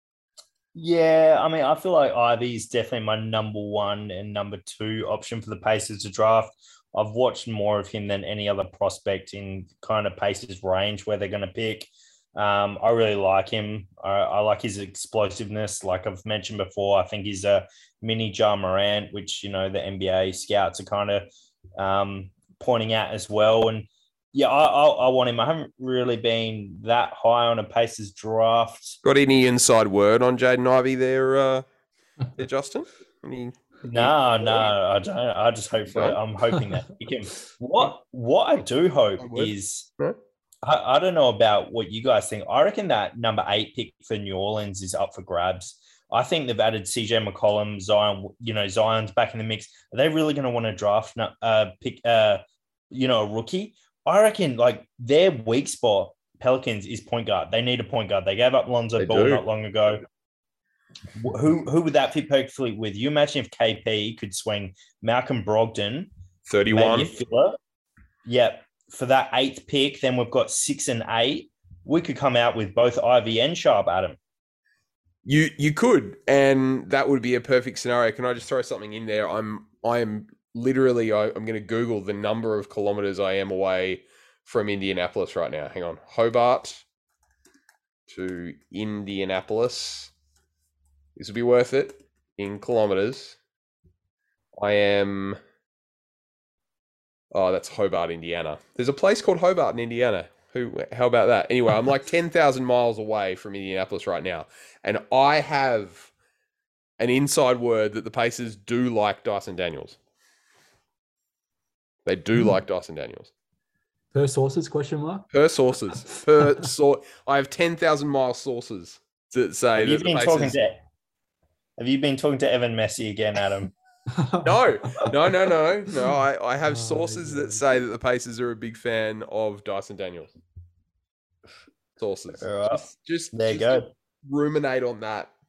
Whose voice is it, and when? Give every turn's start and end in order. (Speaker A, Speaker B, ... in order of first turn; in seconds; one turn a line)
Speaker A: 0.8-29.0
Speaker B: 29.0-31.6
Speaker B: 32.4-34.7
Speaker A: 33.9-39.9
Speaker B: 35.9-36.2
Speaker B: 39.2-40.2
Speaker A: 40.6-60.0
Speaker B: 59.0-59.4
Speaker A: 61.2-66.1
Speaker B: 66.5-67.1
Speaker A: 66.7-67.6
Speaker A: 68.2-74.2
Speaker B: 75.2-86.8
Speaker B: 88.1-90.1
Speaker B: 91.2-93.4
Speaker B: 94.6-95.4
Speaker B: 97.3-106.1
Speaker B: 107.0-110.0
Speaker B: 112.1-113.3
Speaker C: 114.1-115.3
Speaker B: 115.3-120.6
Speaker A: 119.8-120.8
Speaker A: 121.8-123.7
Speaker C: 124.1-125.2
Speaker B: 124.4-130.3
Speaker C: 126.7-127.6
Speaker B: 132.0-135.3
Speaker A: 132.4-133.9